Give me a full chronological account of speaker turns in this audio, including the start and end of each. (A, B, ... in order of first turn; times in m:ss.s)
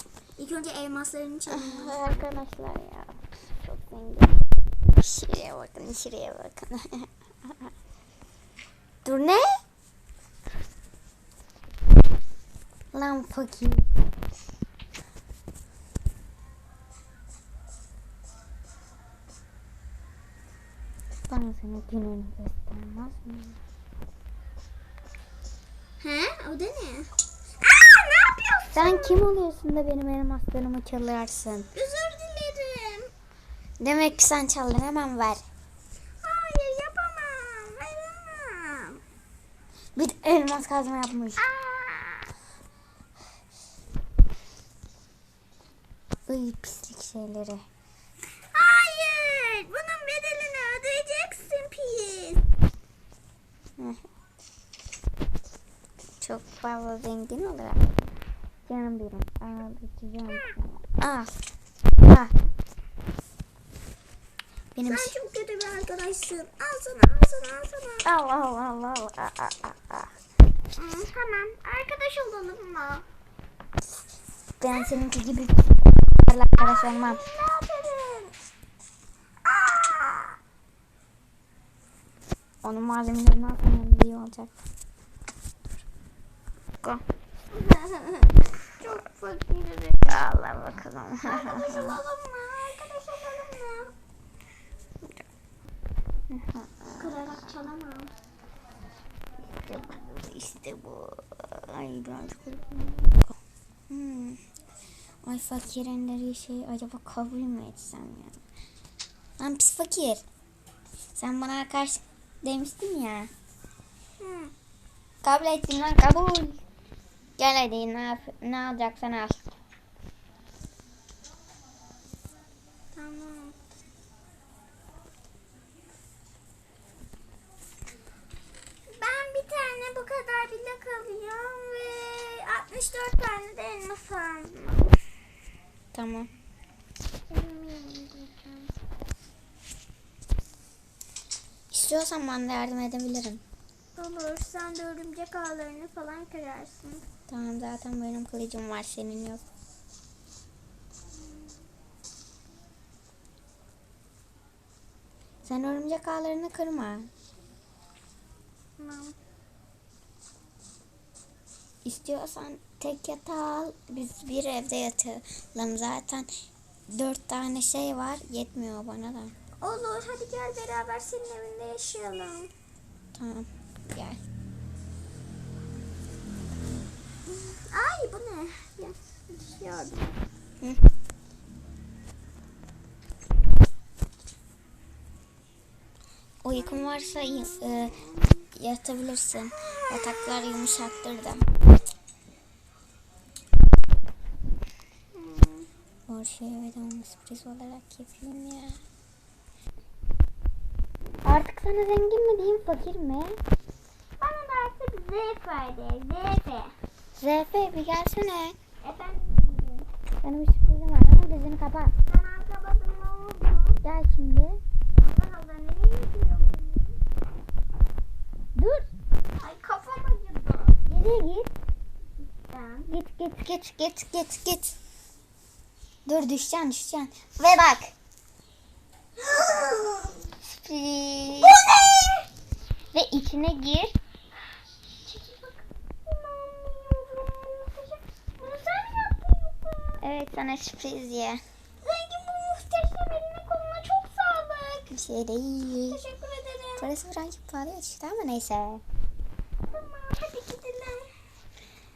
0:00.4-0:02.3 A
0:01.5-0:04.4 B
0:05.0-0:07.5 B
0:09.0-0:09.5 B
0:12.9-0:13.9 B
0:21.3-0:23.6 B
0:26.0-0:27.1 A
0:27.6-0:29.3 A
0:28.7-0:31.7 B
0:31.7-0:33.1 A
0:33.8-0:35.4 B
0:36.2-0:39.0 A
0:40.0-0:41.4 B
0:41.4-0:42.3 A
0:46.3-0:47.6 B
0:48.5-0:52.4 A
0:56.2-0:57.9 B
0:58.6-1:01.3 B
1:02.0-1:02.3 B
1:04.7-1:05.1 B
1:04.8-1:08.0 A
1:08.0-1:10.1 B
1:10.7-1:13.0 A
1:14.6-1:17.2 B
1:16.6-1:18.3 A
1:19.4-1:20.4 A
1:22.6-1:24.5 B
1:27.5-1:30.2 A
1:30.0-1:32.0 B
1:31.2-1:33.9 A
1:36.3-1:37.5 B
1:37.0-1:38.1 A
1:39.6-1:43.1 B
1:43.9-1:44.4 B
1:45.2-1:48.4 B
1:49.4-1:50.2 B
1:51.1-1:53.3 B
1:54.2-1:54.5 A
1:55.2-1:56.6 B
1:57.4-1:59.5 B
2:02.9-2:03.5 A
2:08.9-2:15.0 A
2:15.9-2:16.3 B
2:17.3-2:18.7 A
2:21.7-2:23.4 B
2:23.9-2:27.0 A
2:27.3-2:29.4 B
2:35.4-2:37.1 B
2:38.8-2:39.1 A
2:41.8-2:46.3 B
2:46.9-2:49.3 B
2:49.6-2:52.5 A
2:53.1-2:54.2 B
2:57.3-3:00.2 A
3:06.4-3:08.0 B
3:06.9-3:07.9 A
3:08.5-3:11.4 B
3:15.1-3:15.7 A
3:16.1-3:18.8 B
3:21.2-3:23.4 B
3:24.2-3:26.7 A
3:27.2-3:28.6 B
3:28.8-3:29.9 A
3:30.2-3:31.9 B
3:32.0-3:33.8 A
3:33.8-3:34.6 B
3:35.0-3:37.0 A
3:38.6-3:38.9 B
3:39.4-3:40.8 A
3:40.9-3:41.5 B
3:42.2-3:42.9 A
3:42.9-3:44.7 B
3:46.0-3:47.9 B
3:49.2-3:50.2 A
3:50.4-3:51.6 B
3:51.3-3:52.3 A
3:52.9-3:54.0 B
3:55.0-4:00.0 A
4:00.0-4:01.4 B
4:01.8-4:04.9 A
4:04.9-4:06.0 B
4:05.9-4:06.9 A
4:06.8-4:08.8 B
4:09.7-4:11.1 A